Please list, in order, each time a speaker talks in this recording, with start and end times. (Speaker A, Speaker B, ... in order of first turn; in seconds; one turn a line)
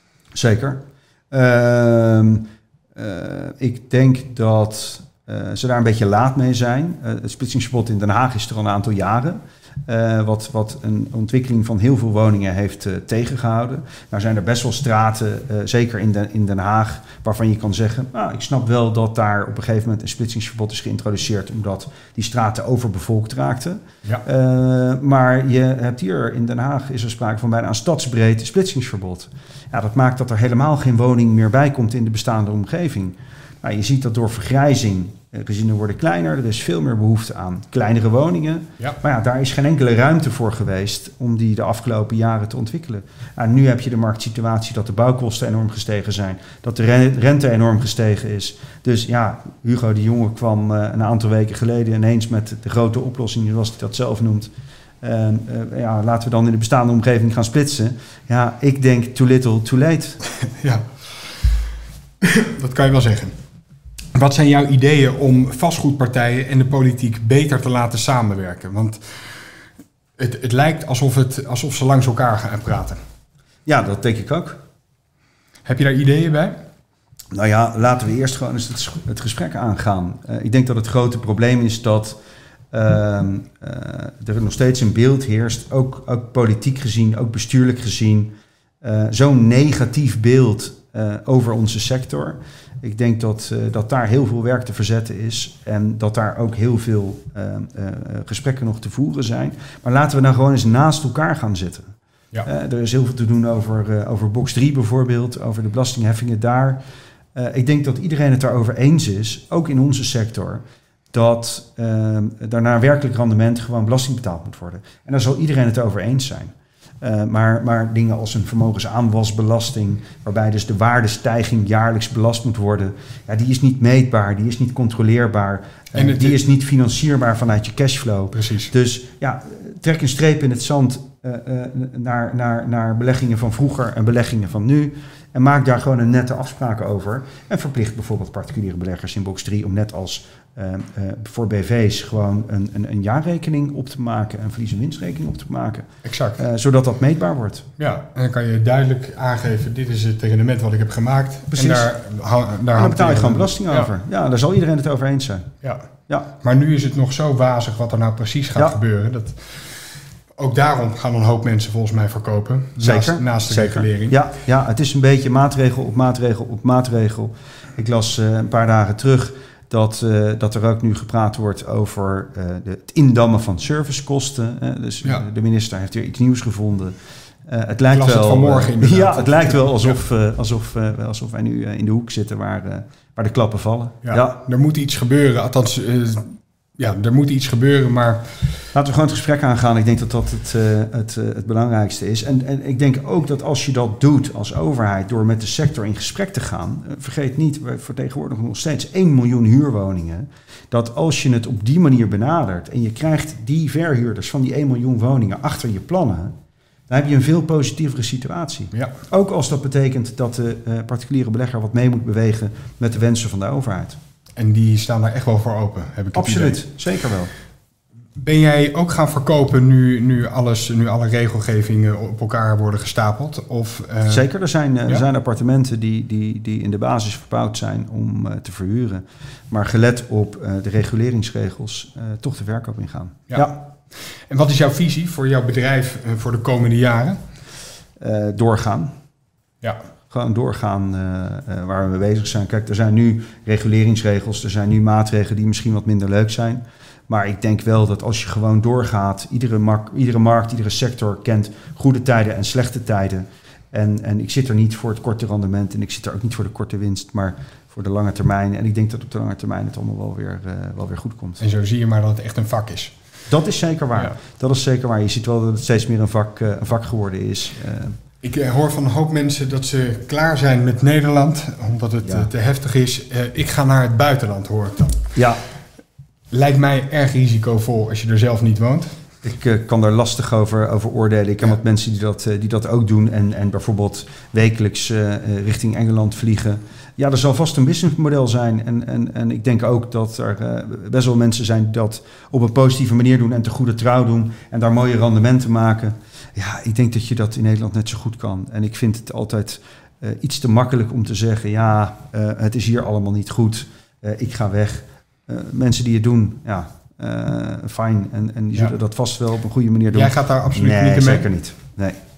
Speaker A: 0.3-60.2
Speaker B: 60.4-61.5
Speaker B: 62.2-63.4
Speaker B: 64.2-69.2
Speaker B: 70.2-73.0
Speaker A: 73.7-74.6
Speaker B: 75.7-76.6
Speaker A: 77.3-82.2
Speaker A: 82.7-106.8
Speaker A: 107.3-145.9
Speaker B: 126.0-126.4
Speaker B: 128.3-128.7
Speaker B: 146.1-146.4
Speaker A: 146.4-147.7
Speaker B: 147.8-153.9
Speaker A: 151.5-151.9
Speaker A: 152.8-155.5
Speaker B: 155.6-155.9
Speaker B: 156.4-159.7
Speaker B: 160.4-164.2
Speaker A: 162.8-184.4
Speaker B: 177.9-179.9
Speaker B: 184.0-188.5
Speaker A: 188.8-206.3
Speaker A: 206.9-214.0
Speaker B: 214.4-216.6
Speaker A: 216.2-217.3
Speaker B: 218.2-224.2
Speaker A: 224.1-233.6
Speaker B: 234.3-237.2
Speaker A: 238.0-238.9
Speaker A: 240.1-261.4
Speaker B: 261.4-262.9
Speaker A: 263.3-268.0
Speaker B: 268.2-275.2
Speaker A: 272.0-272.3
Speaker A: 275.1-275.4
Speaker B: 276.3-278.9
Speaker A: 279.2-312.0
Speaker B: 309.9-311.3